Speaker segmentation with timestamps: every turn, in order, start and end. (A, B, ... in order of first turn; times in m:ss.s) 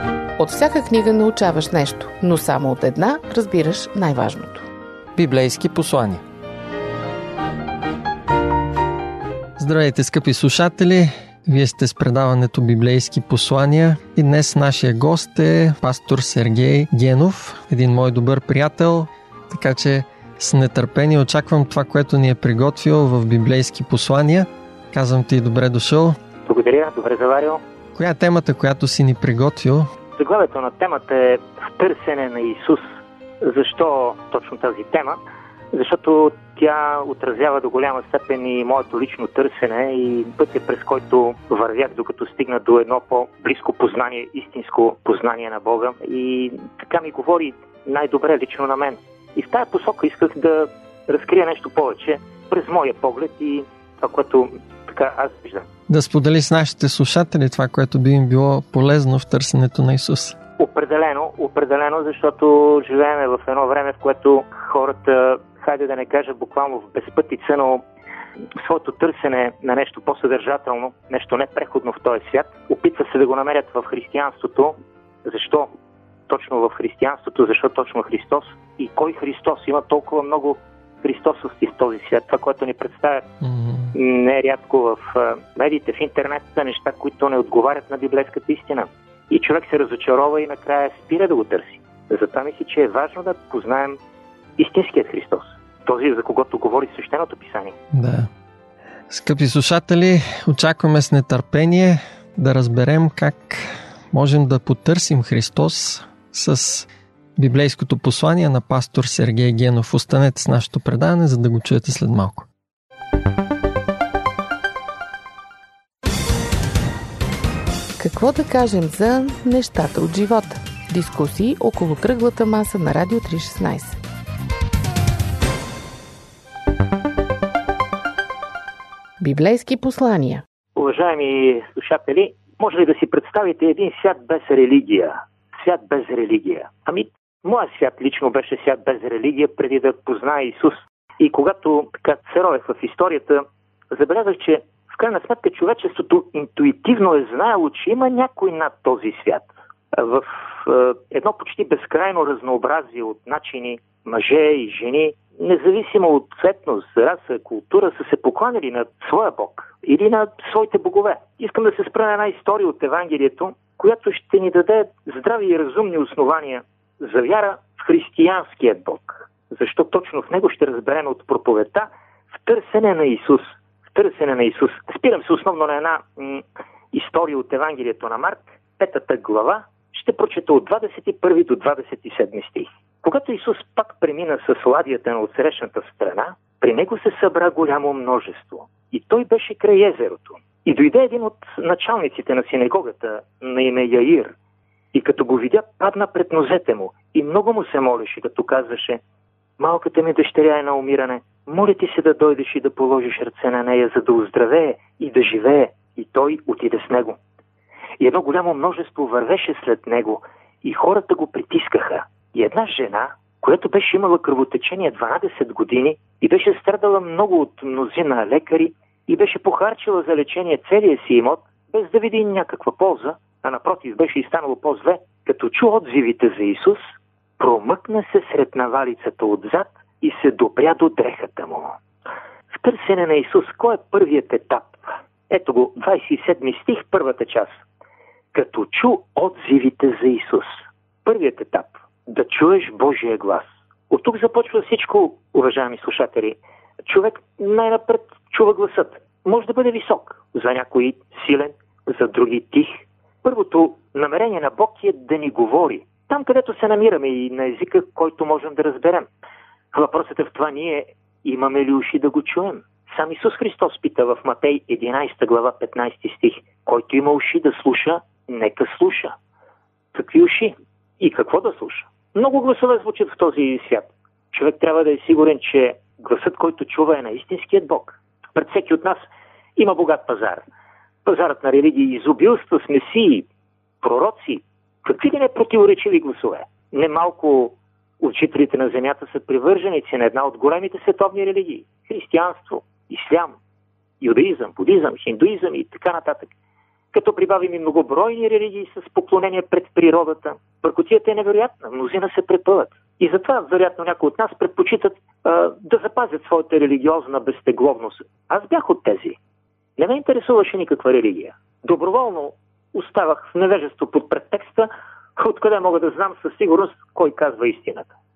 0:00.4-0:04.6 A
0:05.1-0:06.2 B
0:09.6-0:26.2 B
0:26.4-0:27.6 C
0:27.9-0:29.9 B
0:30.2-0:35.2 C
0:35.7-0:55.7 C
0:55.9-1:00.4 B
1:00.6-1:07.8 C
1:08.5-1:15.7 C
1:16.3-1:23.3 C
1:23.4-1:23.9 B
1:23.9-1:34.0 C
1:34.6-1:37.7 C
1:37.9-1:38.3 B
1:39.1-1:52.5 B
1:58.0-2:04.0 A
2:09.2-2:10.4 A
2:10.8-3:14.3 C
3:14.9-3:19.0 C
3:19.6-3:27.2 C
3:28.0-3:51.7 C
3:52.5-3:57.6 C
3:58.3-4:19.1 C
4:19.7-4:29.2 C
4:29.9-4:40.4 C
4:41.0-4:43.3 C
4:43.8-4:53.4 C
4:54.0-4:56.3 C
4:56.9-5:09.2 C
5:09.8-5:17.9 C